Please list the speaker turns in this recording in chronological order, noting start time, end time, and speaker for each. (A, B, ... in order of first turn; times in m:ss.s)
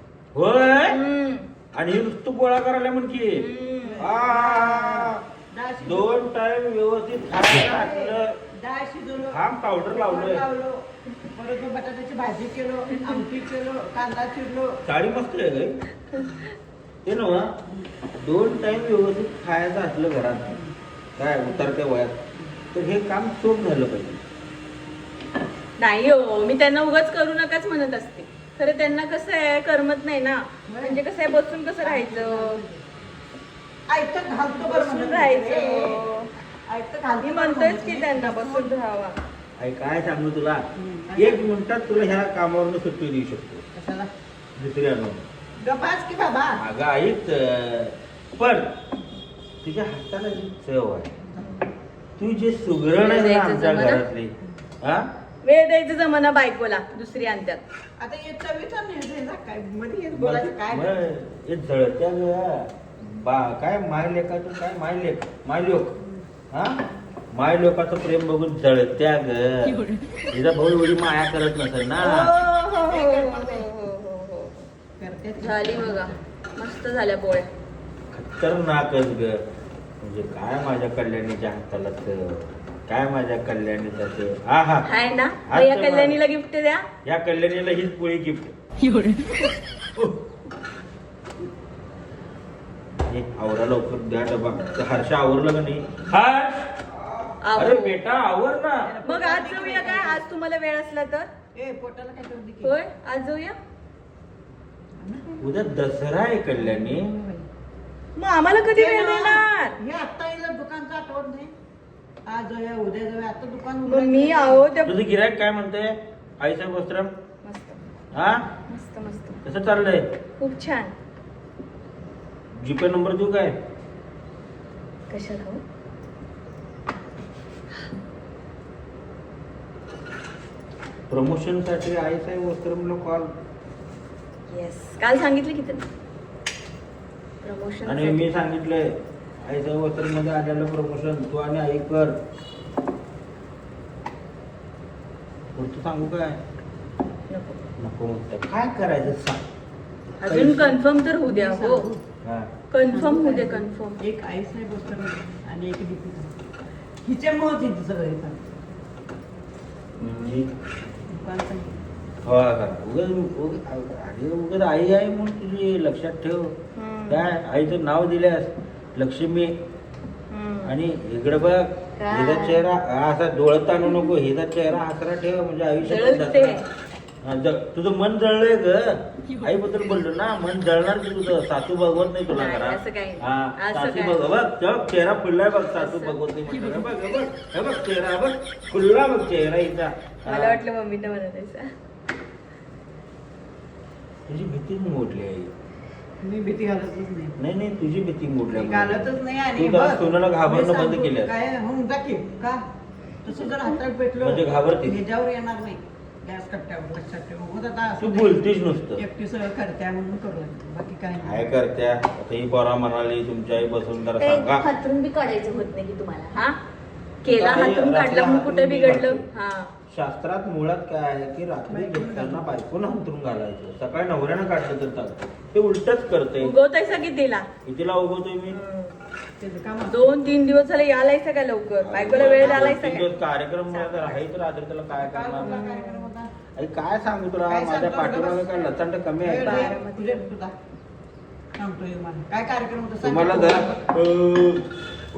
0:00.3-0:01.0 A
0:00.8-0:01.5 B
0:01.7-0:03.5 A
0:03.3-0:04.1 B
0:03.8-0:06.2 C
0:04.0-0:05.2 A
0:05.8-0:08.4 A
0:07.5-0:14.8 C
0:09.3-0:10.4 A
0:14.8-0:15.8 A
0:17.0-0:17.6 A
0:18.2-0:20.6 A
0:21.2-0:22.2 A
0:22.7-0:24.2 A
0:25.8-0:32.6 B
0:30.7-0:31.0 C
0:31.8-0:32.8 C
0:33.9-0:36.1 C
0:34.5-0:36.3 B
0:36.6-0:38.7 C
0:37.2-0:39.2 B
0:39.6-0:43.6 A
0:40.8-0:41.5 C
0:43.7-0:44.1 C
0:44.6-0:45.2 A
0:45.6-0:46.6 C
0:46.6-0:48.8 A
0:49.6-0:51.1 A
0:51.4-0:51.7 B
0:52.2-0:55.1 A
0:53.0-0:54.0 B
0:55.4-0:57.6 B
0:58.0-1:01.1 C
1:00.1-1:05.9 A
1:06.0-1:06.2 C
1:06.5-1:06.8 A
1:07.3-1:12.3 A
1:12.0-1:14.7 B
1:12.9-1:13.7 C
1:15.0-1:16.2 C
1:15.4-1:17.5 B
1:18.1-1:19.4 A
1:20.0-1:24.9 A
1:24.8-1:26.9 B
1:25.5-1:26.2 A
1:27.0-1:28.5 A
1:33.1-1:36.7 A
1:34.3-1:34.8 B
1:37.4-1:38.0 B
1:37.6-1:38.9 A
1:38.8-1:40.2 C
1:39.0-1:41.3 B
1:41.5-1:42.8 C
1:42.6-1:43.6 B
1:45.0-1:45.5 C
1:45.4-1:47.1 A
1:46.5-1:47.5 C
1:48.2-1:49.8 B
1:48.7-1:51.5 C
1:52.2-1:54.7 C
1:53.8-1:55.0 B
1:54.8-1:57.1 A
1:57.4-1:57.8 B
1:58.1-1:58.5 A
1:58.7-1:59.4 B
1:59.4-2:00.0 A
2:00.4-2:00.9 B
2:02.6-2:03.6 A
2:05.1-2:05.6 B
2:11.1-2:13.3 A
2:14.5-2:15.8 B
2:17.4-2:18.3 B
2:17.8-2:22.2 A
2:25.5-2:26.4 A
2:27.3-2:27.6 B
2:27.8-2:29.4 A
2:30.2-2:31.9 B
2:30.2-2:30.8 A
2:31.2-2:32.0 C
2:32.2-2:32.5 A
2:32.7-2:34.0 B
2:32.9-2:36.3 C
2:37.0-2:38.4 C
2:40.0-2:40.4 B
2:40.0-2:40.5 A
2:41.1-2:41.7 C
2:42.2-2:46.5 A
2:46.7-2:47.3 B
2:47.1-2:49.5 A
2:50.3-2:50.7 B
2:50.6-2:56.6 A
2:52.0-2:52.6 B
2:55.8-2:56.7 B
2:57.2-3:10.6 A
3:02.3-3:04.3 B
3:05.8-3:06.2 B
3:10.2-3:11.7 B
3:14.3-3:15.5 A
3:16.2-3:17.4 C
3:17.4-3:21.3 A
3:18.5-3:22.6 C
3:23.2-3:28.4 C
3:24.2-3:25.0 A
3:28.0-3:29.0 A
3:29.0-3:31.5 C
3:31.2-3:34.6 A
3:34.2-3:36.6 B
3:37.2-3:39.7 B
3:37.2-3:39.2 A
3:39.9-3:46.5 A
3:41.7-3:42.5 C
3:46.4-3:47.5 B
3:47.6-3:48.6 A
3:48.5-3:49.0 B
3:49.4-3:50.1 C
3:49.9-3:53.1 B
3:51.8-3:55.6 A
3:52.2-3:52.7 C
3:53.7-3:54.0 B
3:54.9-3:56.3 C
3:55.4-3:56.1 B
3:56.6-3:59.8 A
3:57.5-3:58.5 C
3:59.2-4:00.5 C
3:59.2-4:00.3 B
4:01.6-4:03.9 C
4:03.0-4:04.7 A